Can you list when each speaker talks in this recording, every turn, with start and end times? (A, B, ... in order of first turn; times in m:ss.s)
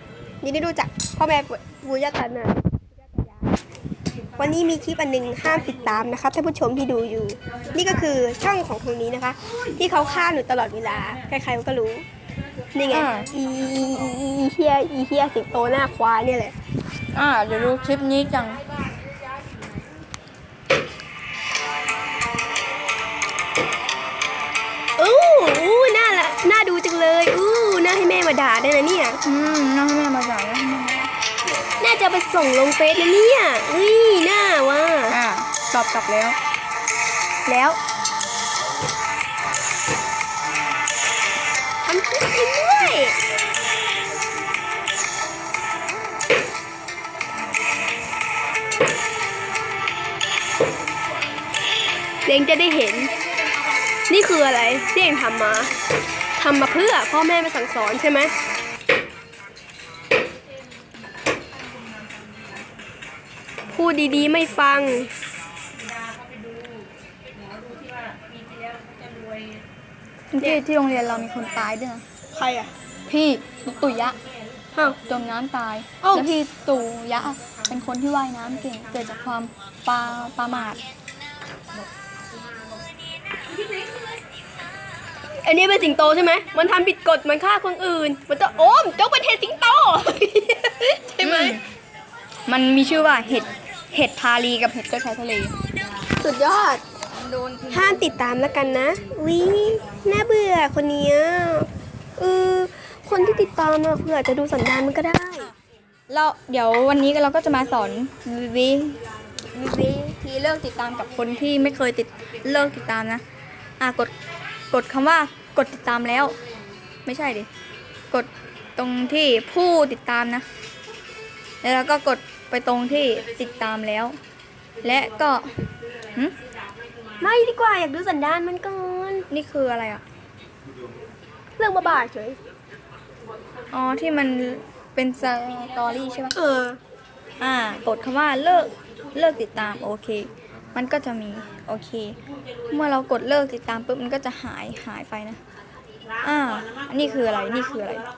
0:00.4-0:03.5 A
0:04.4-0:12.0 A
0:12.7-0:16.6 A
0:12.9-0:13.3 B
0:17.1-0:18.6 B
0:25.0-0:29.2 A
0:29.2-0:31.1 B
0:31.8-0:35.2 A
0:35.1-0:36.4 B
0:37.5-0:37.8 B
0:41.8-0:43.2 A
0:52.3-0:53.1 A
0:54.1-0:55.7 A
0:56.4-0:58.3 A
1:03.7-1:05.1 A
1:10.3-1:12.0 B
1:12.3-1:12.7 A
1:13.1-1:14.2 B
1:15.0-1:20.8 B
1:16.0-1:16.3 A
1:25.4-1:31.6 A
1:31.2-1:31.6 B
1:32.5-1:35.6 B
1:36.2-1:36.8 A
1:37.1-1:38.1 B
1:37.7-1:45.5 A
1:46.1-1:49.0 B
1:49.5-1:53.2 B
1:53.8-1:54.1 B
1:54.7-1:56.4 B
1:57.0-1:57.5 B
1:58.1-2:00.4 B
2:01.6-2:04.2 B
2:04.8-2:05.5 B
2:07.2-2:09.3 A
2:09.3-2:10.0 B
2:11.6-2:12.4 A
2:13.7-2:16.3 B
2:16.3-2:16.8 A
2:17.4-2:25.4 B
2:26.2-2:28.1 B